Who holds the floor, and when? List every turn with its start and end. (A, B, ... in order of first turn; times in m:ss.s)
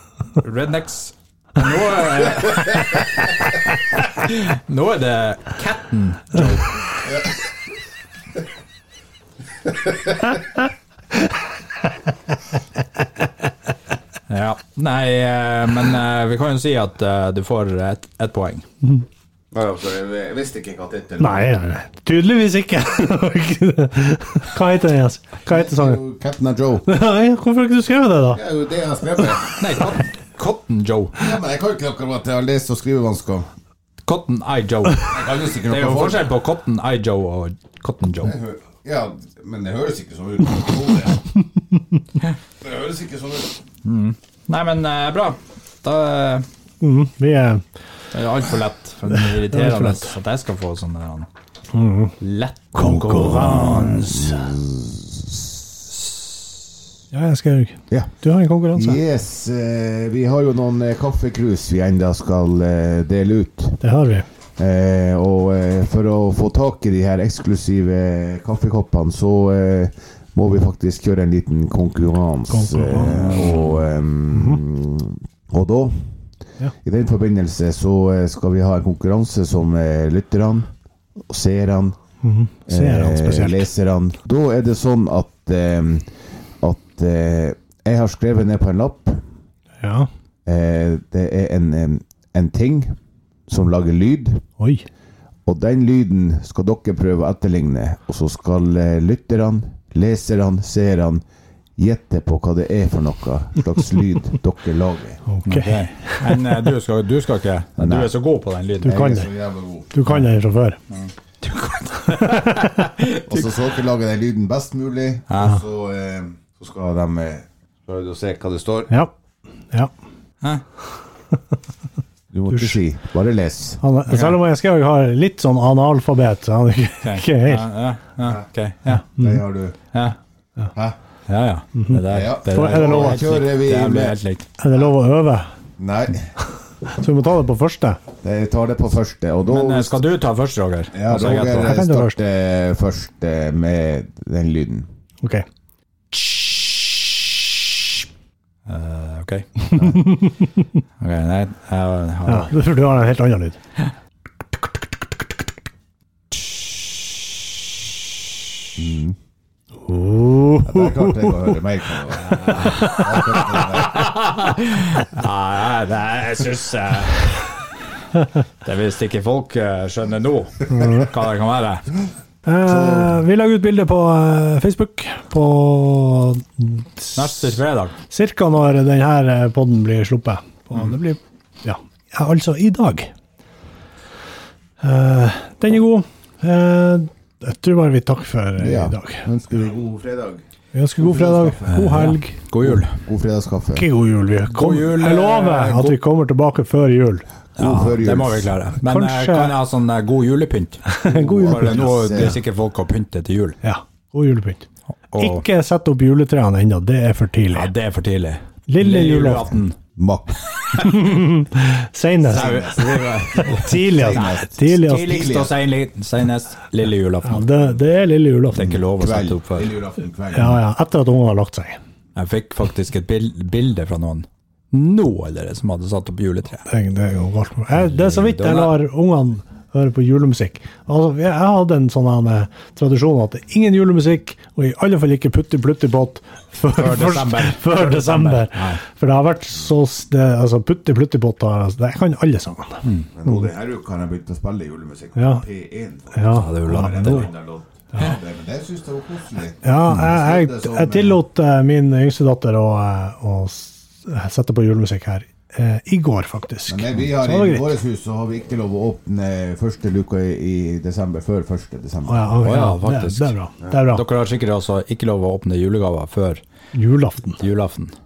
0:00.4-0:06.8 A
0:07.0-0:07.4 B
0:14.3-0:18.6 A
0:19.5-0:21.6 B
0:21.2-0:26.0 C
0:25.5-0:26.9 B
0:26.9-0:28.4 C
0:28.3-0:29.5 B
0:29.6-0:31.2 A
0:31.2-0:33.5 B
0:34.0-0:38.4 A
0:35.1-0:36.3 B
0:38.2-0:41.3 B
0:42.6-0:43.6 B
0:43.8-0:46.4 A
0:46.8-0:47.6 C
0:48.1-0:51.3 A
0:49.1-0:50.1 C
0:51.7-0:52.1 C
0:52.2-0:54.4 A
0:52.7-0:54.2 C
0:52.8-0:55.4 B
0:57.1-0:59.0 C
0:58.7-1:03.8 B
1:03.8-1:04.2 C
1:04.6-1:16.1 B
1:12.5-1:13.3 C
1:13.1-1:13.8 A
1:14.3-1:14.6 C
1:16.8-1:20.7 B
1:21.3-1:22.0 B
1:22.2-1:23.7 C
1:22.7-1:29.2 B
1:29.8-1:30.1 C
1:30.4-1:32.9 B
1:33.5-1:34.4 B
1:34.6-1:34.8 C
1:35.4-1:41.2 B
1:41.8-1:45.2 B
1:45.3-1:46.4 C
1:45.4-1:49.0 A
1:47.8-1:48.1 B
1:48.8-1:49.3 C
1:48.8-1:49.9 B
1:49.9-1:50.8 C
1:50.9-1:53.5 A
1:52.1-1:52.7 C
1:53.3-1:58.9 B
1:55.3-1:55.6 A
2:02.3-2:03.8 B
2:02.5-2:02.8 C
2:03.8-2:07.6 C
2:04.1-2:04.4 A
2:07.0-2:09.1 A
2:08.9-2:09.4 C
2:09.2-2:09.8 B
2:11.3-2:14.4 A
2:11.7-2:13.3 C
2:12.1-2:14.2 B
2:14.6-2:15.5 C
2:15.8-2:16.3 B
2:16.8-2:18.0 C
2:18.2-2:20.0 B
2:19.5-2:21.7 A
2:20.9-2:24.9 B
2:21.6-2:22.2 C
2:26.1-2:26.5 C
2:28.6-2:29.6 A
2:29.6-2:30.5 C
2:31.0-2:32.6 A
2:32.2-2:33.6 C
2:38.8-2:39.2 B
2:39.8-2:41.5 C
2:40.6-2:44.1 B
2:42.3-2:47.6 A
2:42.5-2:43.0 C
2:48.6-2:51.8 A
2:50.7-2:51.0 C
2:52.4-2:57.2 C
2:52.6-2:53.2 B
2:57.2-2:57.9 A
2:58.1-3:03.1 C
3:04.8-3:09.3 C
3:08.6-3:10.4 B
3:10.7-3:12.4 C
3:11.0-3:12.0 B
3:11.7-3:13.0 A
3:12.6-3:13.9 B
3:13.7-3:17.3 C
3:14.5-3:16.0 A
3:17.6-3:18.5 B
3:17.6-3:23.6 A
3:18.8-3:19.6 C
3:20.9-3:22.3 C
3:21.0-3:22.4 B
3:23.6-3:27.7 C
3:25.1-3:25.4 A
3:27.5-3:29.8 A
3:28.7-3:29.5 C
3:30.0-3:30.4 B
3:30.6-3:31.1 A
3:30.8-3:32.6 C
3:32.2-3:35.5 B
3:32.3-3:37.7 A
3:33.3-3:35.3 C
3:37.2-3:38.8 C
3:38.5-3:39.7 A
3:38.6-3:40.6 B
3:40.3-3:41.8 C
3:42.2-3:46.6 A
3:46.6-4:03.4 C
3:47.8-3:48.7 A
3:56.7-3:58.8 A
4:03.2-4:11.2 B
4:05.2-4:05.4 C
4:06.1-4:07.3 C
4:06.3-4:07.3 A
4:09.6-4:17.7 C
4:16.7-4:22.4 B
4:22.1-4:24.0 C
4:22.4-4:26.4 A
4:26.7-4:27.4 C
4:27.4-4:27.9 A